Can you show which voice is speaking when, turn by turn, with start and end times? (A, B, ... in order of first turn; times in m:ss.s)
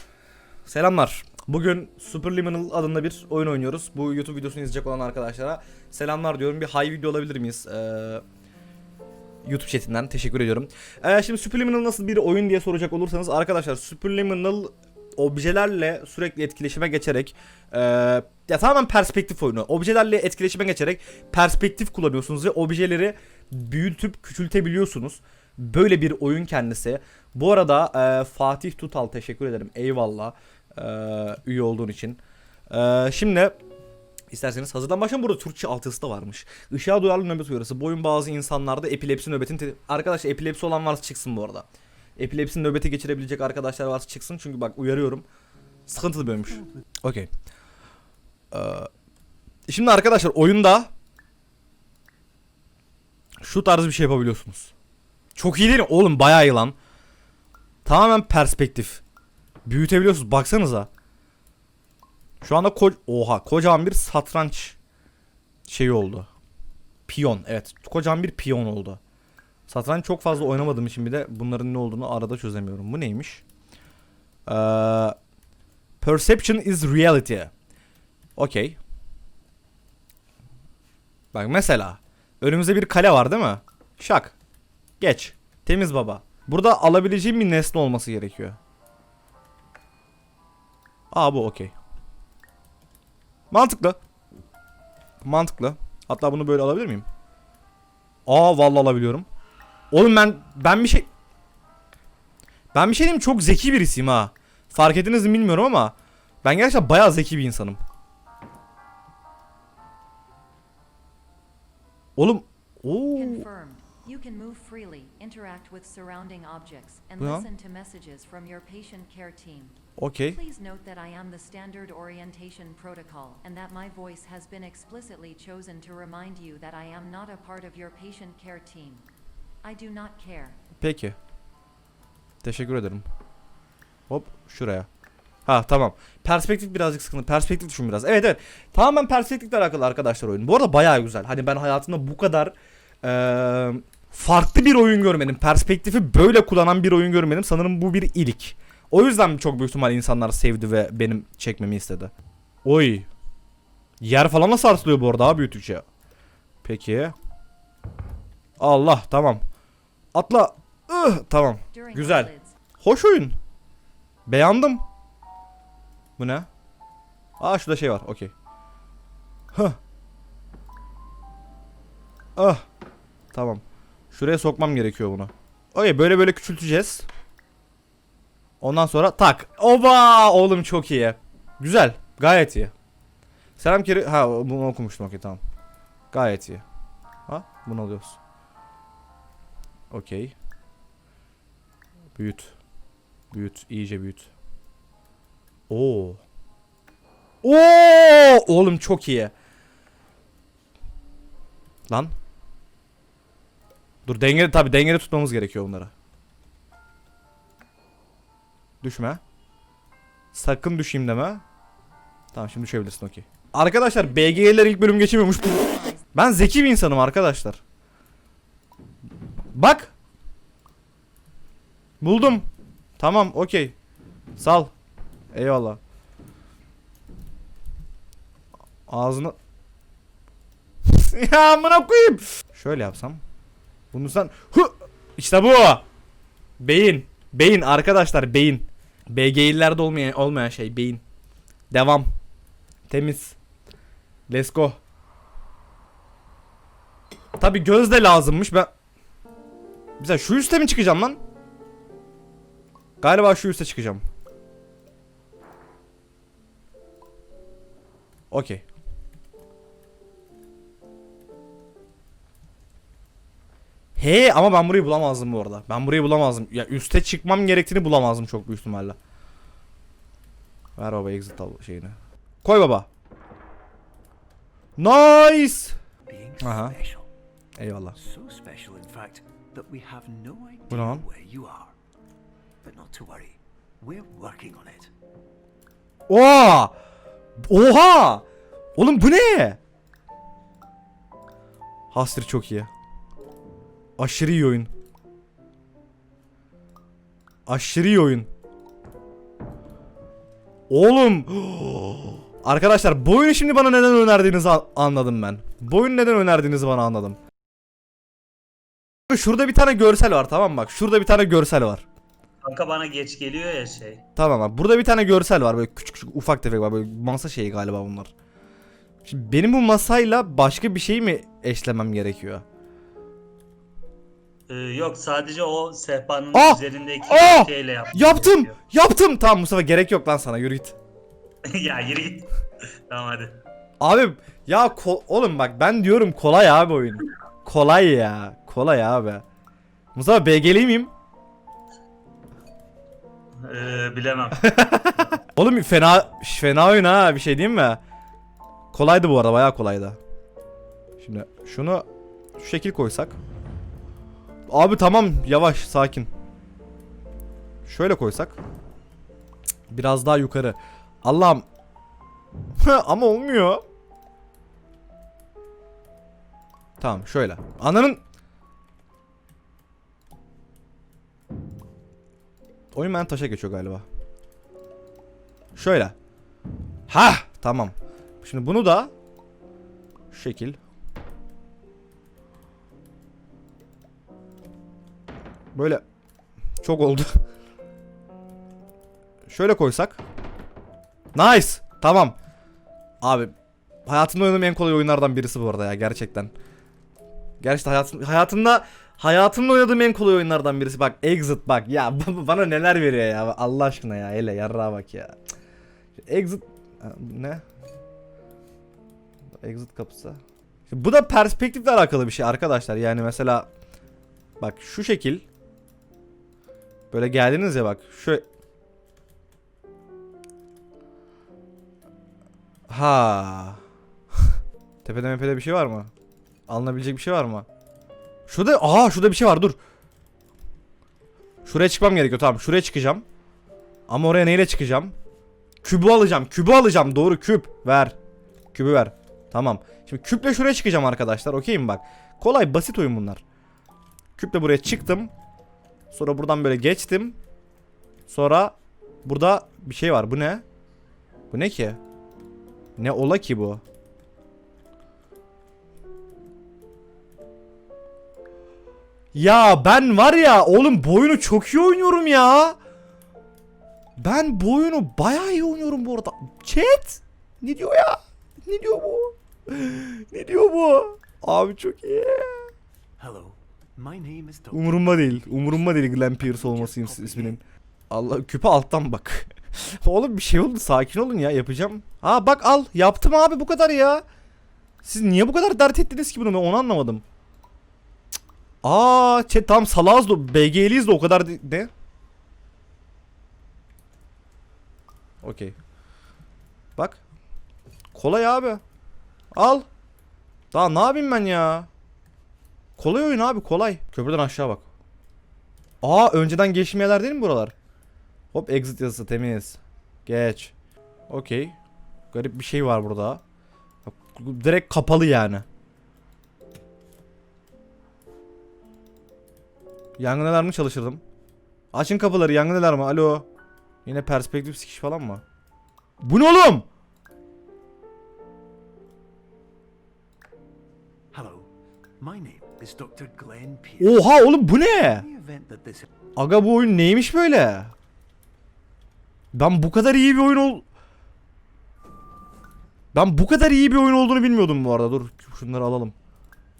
0:00.6-0:08.2 A
0:09.4-0:32.2 A
0:32.7-0:33.6 A
0:34.3-0:45.2 A
0:45.9-0:47.3 A
0:48.5-0:48.9 A
0:49.7-0:50.9 A
0:53.4-0:54.7 A
0:55.3-0:56.7 A
0:57.8-0:59.0 A
0:59.6-1:00.9 A
1:02.4-1:04.8 A
1:05.7-1:06.3 A
1:07.1-1:09.0 A
1:09.7-1:13.4 A
1:14.5-1:15.2 A
1:16.0-1:17.5 A
1:18.4-1:18.8 A
1:21.3-1:24.4 A
1:25.0-1:28.6 A
1:31.1-1:31.7 A
1:33.5-1:34.0 A
1:35.2-1:37.0 A
1:38.2-1:39.2 A
1:39.9-1:41.1 A
1:42.7-1:47.8 A
1:52.2-1:53.5 A
1:53.1-2:09.0 B
1:57.2-1:57.5 A
2:00.0-2:00.4 A
2:09.6-2:10.6 B
2:10.8-2:11.2 A
2:12.4-2:13.0 A
2:14.1-2:14.9 A
2:15.4-2:32.1 A
2:32.6-2:33.1 A
2:34.0-2:35.8 A
2:36.6-2:37.1 A
2:38.6-2:39.4 A
2:40.1-2:43.4 A
2:41.7-2:42.6 B
2:44.2-2:44.8 A
2:46.2-2:46.5 A
2:47.4-2:48.3 A
2:49.5-2:49.8 A
2:52.4-2:52.6 A
2:53.3-2:57.1 A
2:58.6-3:02.7 A
3:03.6-3:05.4 A
3:06.1-3:06.6 A
3:07.3-3:08.2 A
3:09.9-3:10.3 A
3:12.2-3:12.6 A
3:13.3-3:14.3 A
3:15.7-3:16.2 A
3:17.4-3:19.3 A
3:21.9-3:22.1 A
3:24.0-3:25.9 A
3:28.8-3:29.2 A
3:30.3-3:31.4 A
3:32.3-3:37.6 A
3:39.5-3:39.9 A
3:42.0-3:42.5 A
3:43.0-3:43.7 A
3:44.4-3:44.7 A
3:45.3-3:45.8 A
3:48.9-3:49.4 A
3:50.9-3:53.2 A
3:53.9-3:55.8 A
3:56.6-4:01.0 A
4:01.7-4:02.1 A
4:02.9-4:03.4 A
4:04.3-4:04.8 A
4:07.4-4:08.7 A
4:10.0-4:11.2 A
4:13.0-4:14.0 A
4:18.3-4:18.6 A
4:24.0-4:29.0 A
4:30.8-4:32.9 A
4:34.8-4:35.8 A
4:36.1-4:37.1 C
4:36.4-4:36.8 A
4:37.6-4:38.0 A
4:38.0-4:41.7 C
4:40.7-4:41.0 A
4:42.6-4:44.9 C
4:46.1-4:46.7 A
4:47.4-4:48.2 A
4:48.8-4:49.6 A
4:51.9-4:52.7 A
4:54.0-4:54.7 A
4:57.5-4:58.3 A
5:00.7-5:07.2 A
5:09.1-5:11.8 A
5:12.4-5:14.0 D
5:14.2-5:18.1 A
5:19.0-5:22.4 A
5:24.5-5:28.5 D
5:26.3-5:30.8 A
5:31.5-5:32.3 D
5:32.9-5:33.4 D
5:33.8-5:39.2 A
5:39.9-5:40.9 A
5:43.4-5:44.5 D
5:44.4-5:47.8 A
5:48.7-5:50.0 A
5:51.0-5:51.8 A
5:52.4-5:53.2 A
5:54.5-5:56.1 A
5:57.6-5:58.4 A
5:59.7-6:01.4 A
6:02.6-6:03.6 A
6:06.8-6:08.0 A
6:12.7-6:13.8 A
6:15.6-6:15.9 A
6:16.9-6:18.9 A
6:20.1-6:20.6 A
6:25.5-6:25.8 A
6:26.6-6:27.1 A
6:29.3-6:30.0 A
6:31.1-6:32.2 A
6:33.0-6:33.3 A
6:33.8-6:36.3 A
6:37.4-6:45.2 A
6:46.0-6:47.4 A
6:49.4-6:53.5 A
6:54.4-6:55.2 A
6:56.9-6:58.2 A
7:02.7-7:03.6 A
7:04.8-7:05.9 A
7:06.5-7:07.4 A
7:08.3-7:09.6 A
7:11.4-7:13.0 A
7:13.9-7:14.9 A
7:15.6-7:18.0 A
7:18.5-7:23.2 A
7:24.2-7:25.1 A
7:25.9-7:27.2 A
7:28.1-7:30.4 A
7:31.3-7:31.8 A
7:32.8-7:33.6 A
7:39.1-7:42.6 A
7:44.0-7:52.4 A
7:53.0-7:57.4 C
7:54.5-8:04.0 A
8:04.8-8:07.0 A
8:08.6-8:11.7 A
8:15.2-8:15.6 A
8:16.8-8:17.0 A
8:17.9-8:18.6 A
8:19.3-8:19.6 A
8:20.5-8:21.7 A
8:22.8-8:24.7 A
8:25.8-8:27.5 A
8:28.3-8:30.5 A
8:31.1-8:31.6 A
8:32.1-8:33.2 A
8:33.8-8:35.4 A
8:40.0-8:41.0 A
8:41.7-8:43.2 A
8:43.8-8:45.2 A
8:46.0-8:46.6 A
8:51.1-8:51.5 C
8:52.0-8:54.1 C
8:53.8-8:55.0 A
8:54.8-8:55.9 C
8:56.2-8:57.7 A
8:59.3-9:00.6 A
9:02.9-9:05.9 A